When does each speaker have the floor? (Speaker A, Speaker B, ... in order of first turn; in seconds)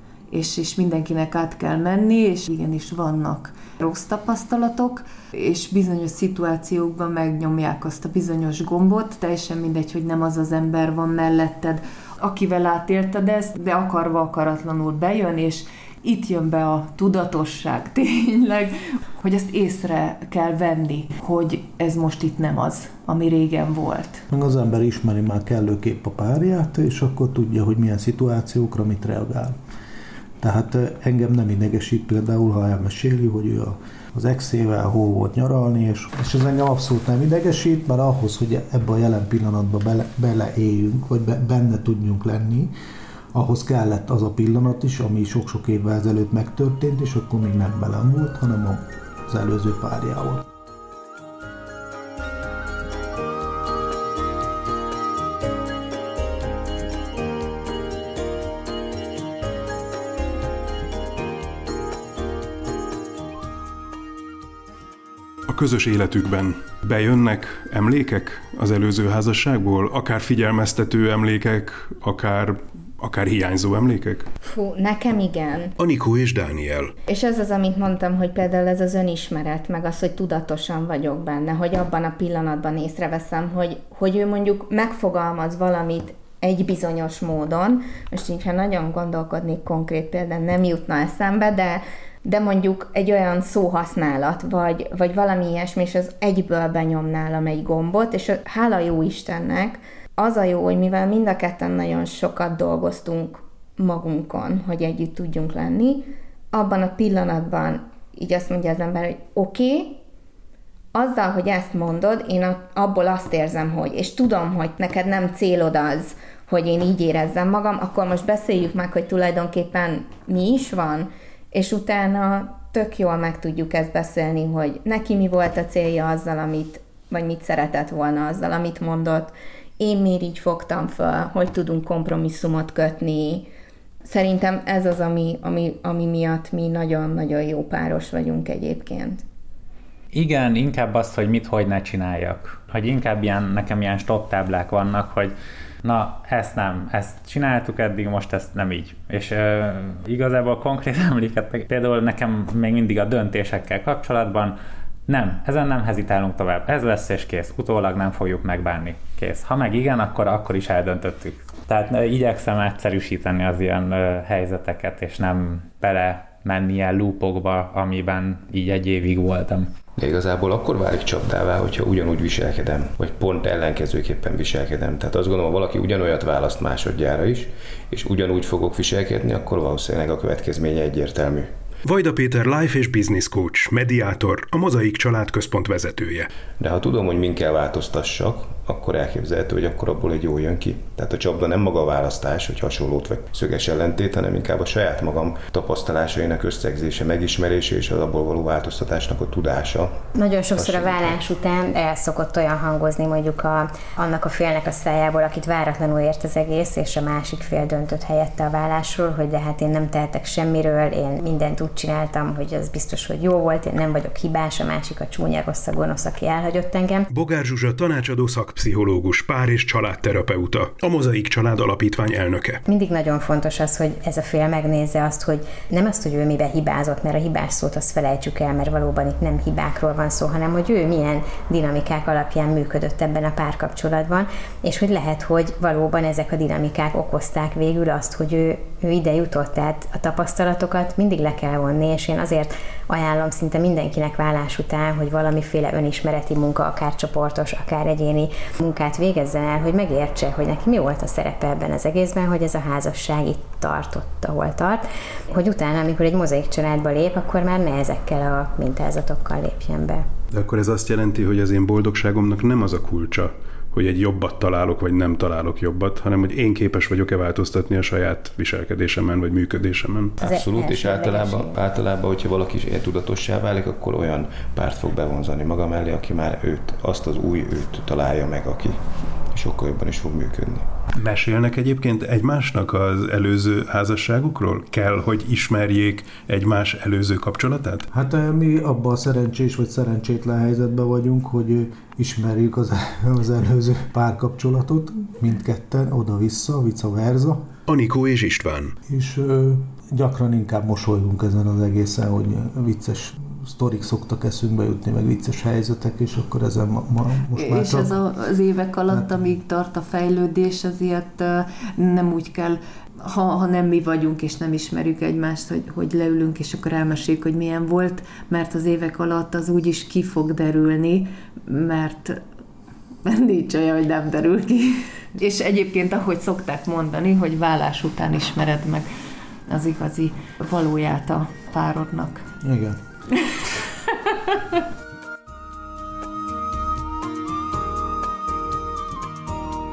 Speaker A: 0.3-24.2, 307.4-322.2, 323.0-328.9, 329.5-332.3
Speaker B: 24.3-29.5, 30.4-42.7, 43.3-50.5, 287.9-297.5, 298.9-308.0, 308.9-309.3, 332.4-332.8
Speaker C: 65.5-74.3, 75.8-76.9, 181.8-186.3, 217.1-222.6, 260.3-270.2, 280.9-287.9, 297.7-298.8
Speaker D: 74.4-75.7, 77.1-110.0, 110.9-133.5, 134.0-139.2
Speaker E: 140.1-154.6, 155.1-169.7
Speaker F: 170.0-181.5, 186.6-200.0, 200.6-201.2, 270.2-278.8, 279.3-280.7
Speaker G: 200.2-217.1, 222.7-260.1, 270.2-271.6